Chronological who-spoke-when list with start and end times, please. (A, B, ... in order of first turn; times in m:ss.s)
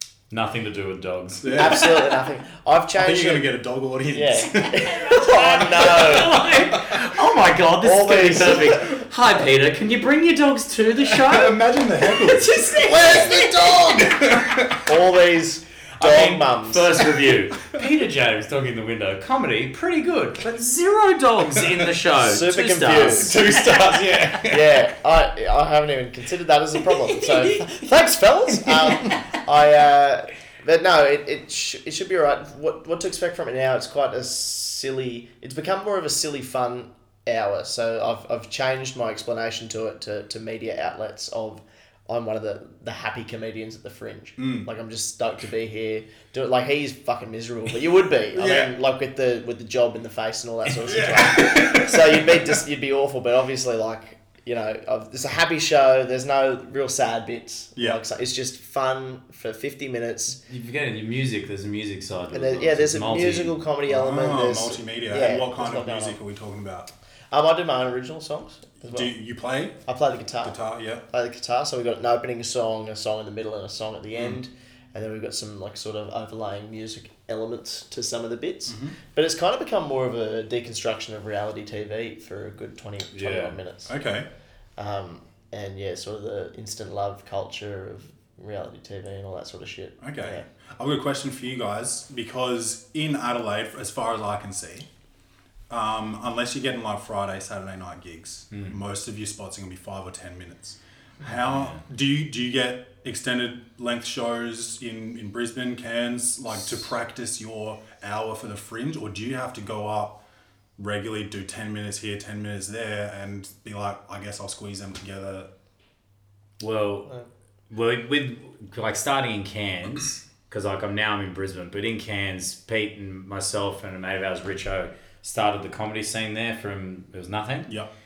0:00.3-0:02.0 A
0:01.4-0:02.1 B
0:01.5-0:03.5 C
0:03.0-0:05.0 B
0:04.1-0:06.5 C
0:04.8-0:14.1 A
0:06.7-0:07.0 B
0:07.8-0:09.0 C
0:11.0-0:14.8 B
0:13.0-0:14.0 C
0:14.7-0:17.1 C
0:16.0-0:24.3 A
0:22.2-0:23.4 C
0:23.1-0:24.7 B
0:24.4-1:00.4 C
0:26.9-0:27.9 A
0:28.5-0:29.4 A
0:44.4-0:44.7 B
0:48.3-0:48.7 B
0:50.7-0:52.6 B
1:00.4-1:03.5 A
1:02.3-1:06.2 C
1:03.8-1:06.9 B
1:07.3-1:09.1 C
1:08.9-1:09.8 B
1:09.9-1:10.6 C
1:10.4-1:11.0 B
1:11.1-1:23.9 C
1:18.7-1:19.0 B
1:23.1-1:23.6 A
1:23.9-1:24.3 B
1:24.8-1:30.4 C
1:30.0-1:34.9 B
1:35.7-1:50.2 B
1:38.5-1:38.8 A
1:41.5-1:41.8 A
1:50.8-1:55.5 B
1:56.6-1:57.1 A
1:57.7-2:07.7 A